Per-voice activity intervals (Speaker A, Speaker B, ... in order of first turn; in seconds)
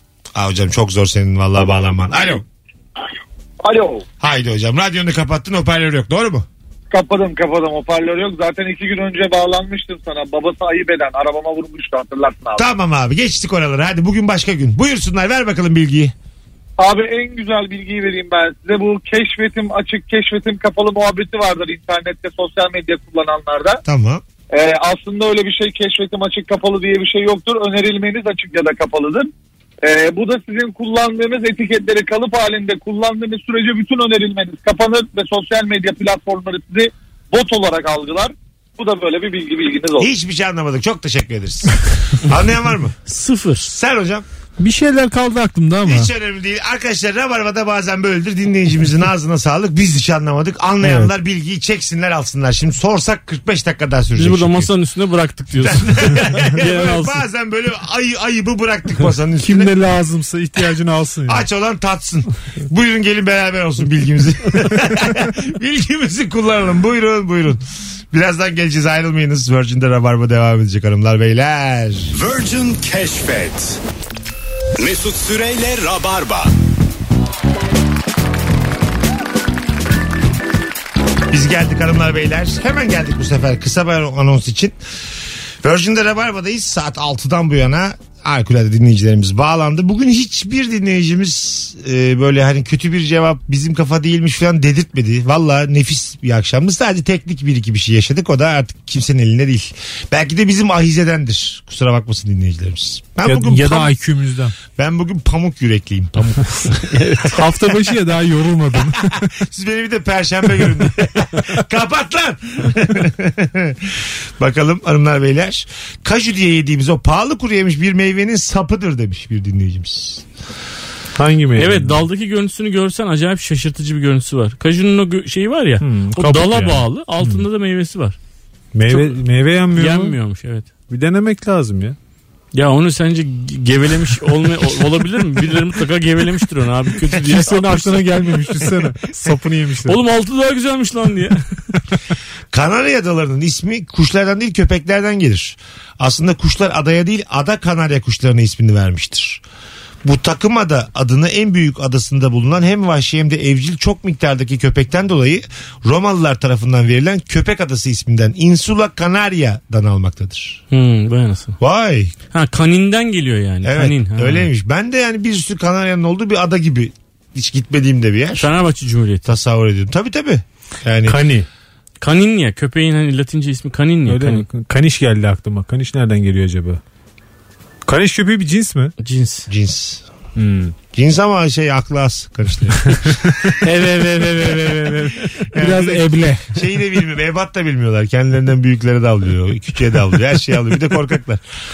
Speaker A: 0.3-2.4, 4.2-6.5, 12.6-16.1, 23.8-24.2, 40.0-43.0, 43.6-44.2, 45.8-54.7, 55.6-59.8, 61.3-72.1, 81.3-84.7, 85.6-103.9, 104.8-106.8, 109.4-120.2, 142.5-149.4, 150.0-160.6, 161.6-162.1, 163.6-168.4, 169.2-171.2, 179.5-180.0, 180.9-183.2, 185.5-191.4
Speaker B: 6.9-12.6, 16.8-23.8, 24.5-29.3, 29.8-40.1
Speaker C: 43.0-43.7, 54.2-57.2, 121.6-128.2, 128.9-129.2, 129.7-130.7, 132.5-138.0, 139.9-141.4, 160.7-161.6, 162.3-164.5, 168.3-169.3, 172.0-174.5, 179.0-179.5, 183.6-185.0
Speaker D: 44.6-46.1, 50.8-51.1, 59.4-61.5, 103.2-104.5, 107.2-109.3, 121.1-122.0, 125.8-127.4, 128.7-130.2, 130.9-132.0, 137.2-140.0, 171.1-171.5, 174.1-176.8, 177.8-178.9, 180.3-180.7, 182.9-186.5
Speaker E: 72.1-73.8, 74.8-76.5